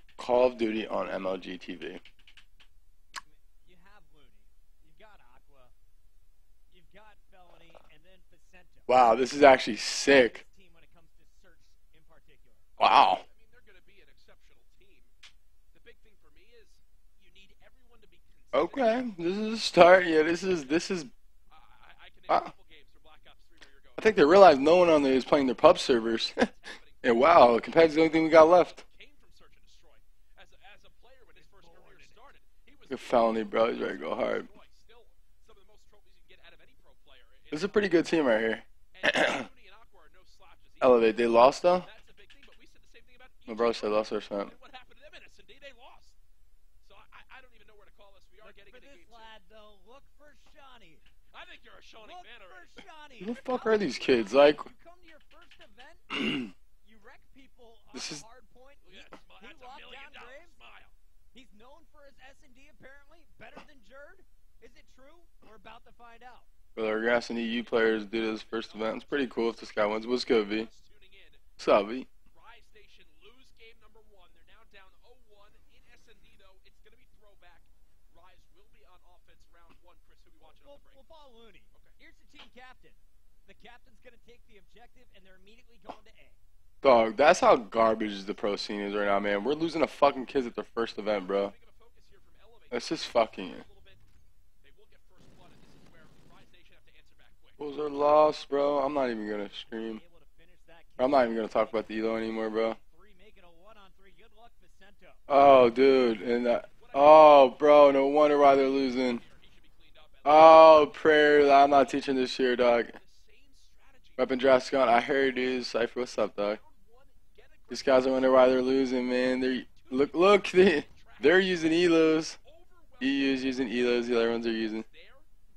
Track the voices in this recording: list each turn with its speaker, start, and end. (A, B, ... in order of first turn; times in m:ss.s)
0:00.2-0:02.0 A
0:03.2-0:05.7 B
0:06.7-0:09.0 B
0:08.9-0:10.4 A
0:10.0-0:12.7 B
0:12.8-0:13.2 A
0:12.8-0:15.1 C
0:15.7-0:19.1 C
0:18.5-0:21.1 A
0:21.5-0:24.3 C
0:24.0-0:26.4 A
0:26.0-0:38.0 C
0:27.0-0:28.8 A
0:31.3-0:32.3 B
0:32.9-0:34.5 A
0:37.5-0:39.5 A
0:38.9-0:46.2 C
0:40.8-0:41.9 A
0:43.5-0:44.5 A
0:46.8-0:49.4 C
0:48.4-0:51.0 B
0:51.3-0:52.9 C
0:52.0-0:56.3 B
0:53.2-0:54.7 A
0:56.1-0:56.5 A
0:56.8-1:00.6 B
0:57.9-0:58.2 A
0:58.8-1:00.9 C
1:01.3-1:06.5 B
1:06.8-1:10.7 A
1:07.5-1:11.5 C
1:11.6-1:12.1 A
1:12.3-1:21.0 C
1:20.4-1:26.4 B
1:21.7-1:22.0 C
1:26.8-1:31.5 A
1:31.1-1:34.0 C
1:32.7-1:33.6 A
1:34.6-1:37.6 C
1:37.6-1:40.0 A
1:39.5-1:45.2 B
1:41.0-1:42.8 A
1:45.3-1:49.2 A
1:46.7-1:51.9 C
1:50.2-1:53.0 A
1:52.6-1:54.4 C
1:54.2-1:56.6 A
1:55.2-1:55.6 C
1:56.2-1:58.6 C
1:57.7-2:02.4 A
1:59.7-2:05.3 C
2:03.0-2:04.8 A